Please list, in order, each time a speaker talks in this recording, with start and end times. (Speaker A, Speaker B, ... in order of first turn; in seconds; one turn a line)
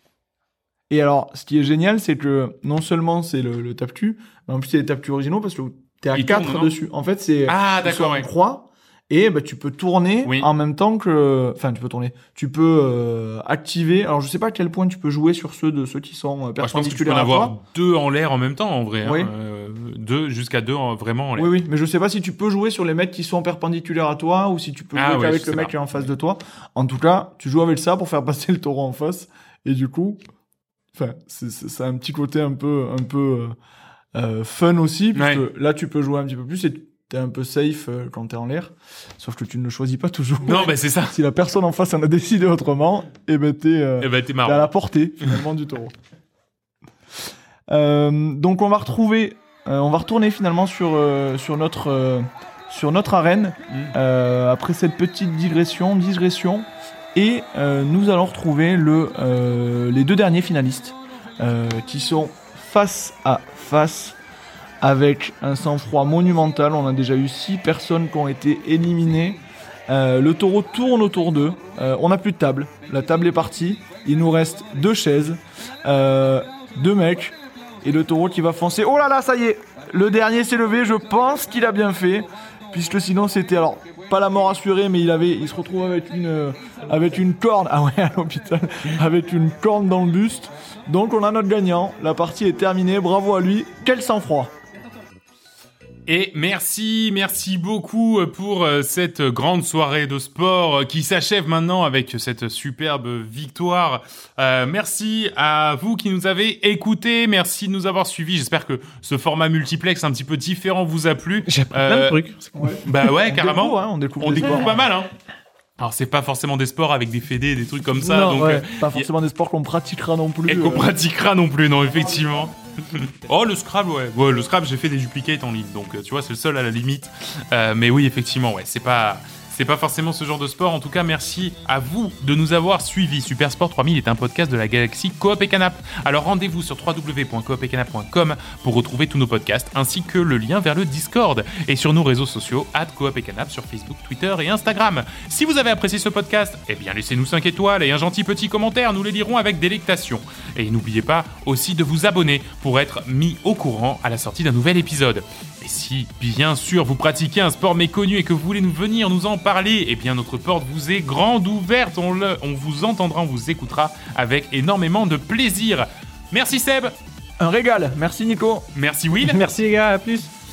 Speaker A: 0.9-17.6
Speaker B: 6.1-6.7
Speaker B: 7.5-8.3
Speaker B: 10.2-10.5
Speaker B: 16.6-21.5
Speaker A: 19.0-19.3
Speaker A: 21.4-30.2
Speaker B: 24.9-25.7
Speaker A: 30.9-33.6
Speaker A: 34.1-45.9
Speaker B: 35.1-35.5
Speaker B: 40.5-41.2
Speaker B: 44.0-44.7
Speaker A: 47.7-64.2
Speaker A: 64.8-94.5
Speaker B: 96.1-112.2
Speaker C: 111.5-112.8
Speaker A: 112.5-114.8
Speaker B: 112.8-115.1
Speaker B: 115.8-119.1
Speaker C: 118.0-118.7
Speaker A: 118.6-120.9
Speaker B: 120.5-166.9
Speaker A: 167.4-168.7
Speaker B: 168.7-169.4
Speaker C: 169.2-170.3